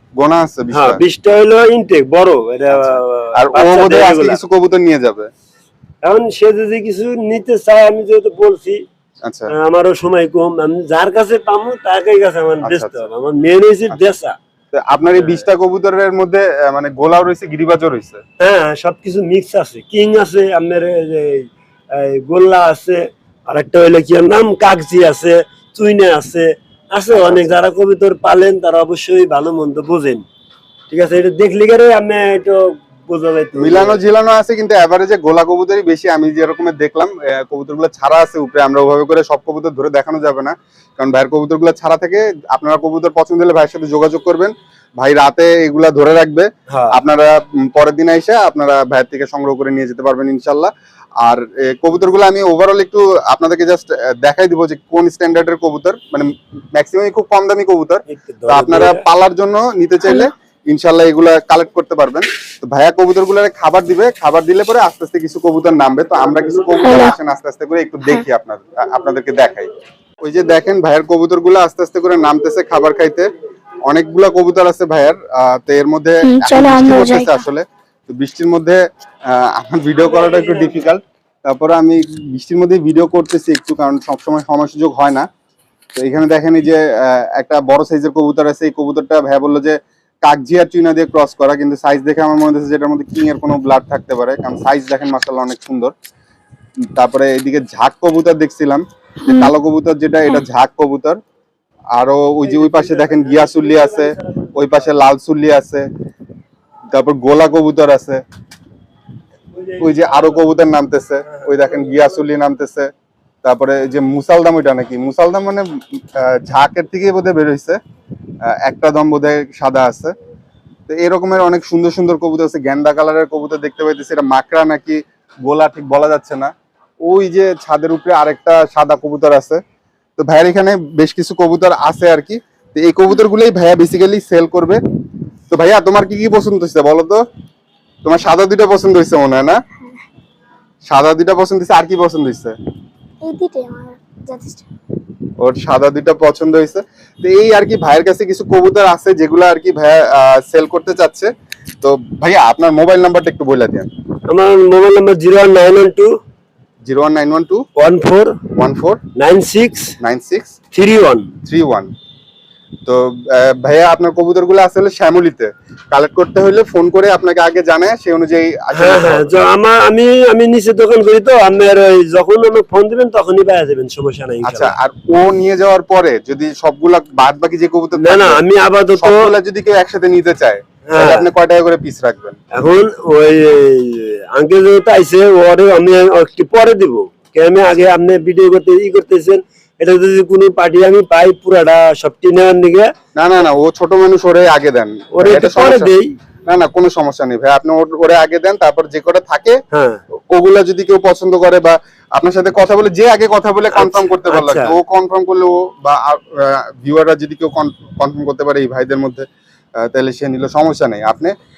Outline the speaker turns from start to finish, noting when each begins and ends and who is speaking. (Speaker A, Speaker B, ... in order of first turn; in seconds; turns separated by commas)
Speaker A: 0.2-1.0, Speaker B: 0.7-4.4, Speaker A: 2.7-5.3, Speaker B: 6.0-8.8, Speaker A: 9.2-9.5, Speaker B: 9.5-14.3, Speaker A: 12.6-13.0, Speaker A: 14.7-18.2, Speaker B: 15.2-15.4, Speaker B: 18.4-30.2, Speaker A: 27.1-27.5, Speaker B: 30.9-34.0, Speaker A: 33.6-50.7, Speaker B: 46.7-46.9, Speaker A: 51.2-69.7, Speaker B: 58.1-59.0, Speaker B: 66.2-67.1, Speaker C: 66.8-67.1, Speaker A: 70.2-73.3, Speaker A: 73.9-85.3, Speaker C: 76.2-77.4, Speaker B: 80.0-80.8, Speaker A: 85.9-95.9, Speaker A: 96.8-101.2, Speaker C: 99.2-99.5, Speaker A: 101.9-105.9, Speaker B: 102.4-104.9, Speaker A: 106.9-108.2, Speaker B: 109.5-110.5, Speaker A: 109.8-112.9, Speaker B: 111.2-112.2, Speaker A: 113.4-117.8, Speaker A: 118.4-120.1, Speaker A: 120.9-126.5, Speaker A: 127.0-129.6, Speaker A: 130.2-134.8, Speaker A: 135.5-137.2, Speaker A: 138.0-139.6, Speaker A: 140.9-142.5, Speaker C: 143.2-144.6, Speaker A: 145.4-153.9, Speaker B: 154.3-156.1, Speaker A: 156.8-157.6, Speaker B: 157.8-158.4, Speaker A: 158.5-159.0, Speaker B: 159.2-159.9, Speaker A: 160.0-160.6, Speaker B: 160.7-161.3, Speaker A: 161.4-161.9, Speaker A: 162.8-169.3, Speaker B: 168.8-174.7, Speaker A: 174.4-178.4, Speaker B: 177.9-179.3, Speaker A: 178.9-182.4, Speaker B: 180.9-181.3, Speaker B: 182.5-192.9, Speaker A: 193.2-195.9, Speaker B: 195.1-196.1, Speaker A: 196.5-199.6, Speaker B: 199.7-200.0, Speaker A: 200.3-209.2, Speaker B: 203.7-204.8, Speaker A: 209.8-211.3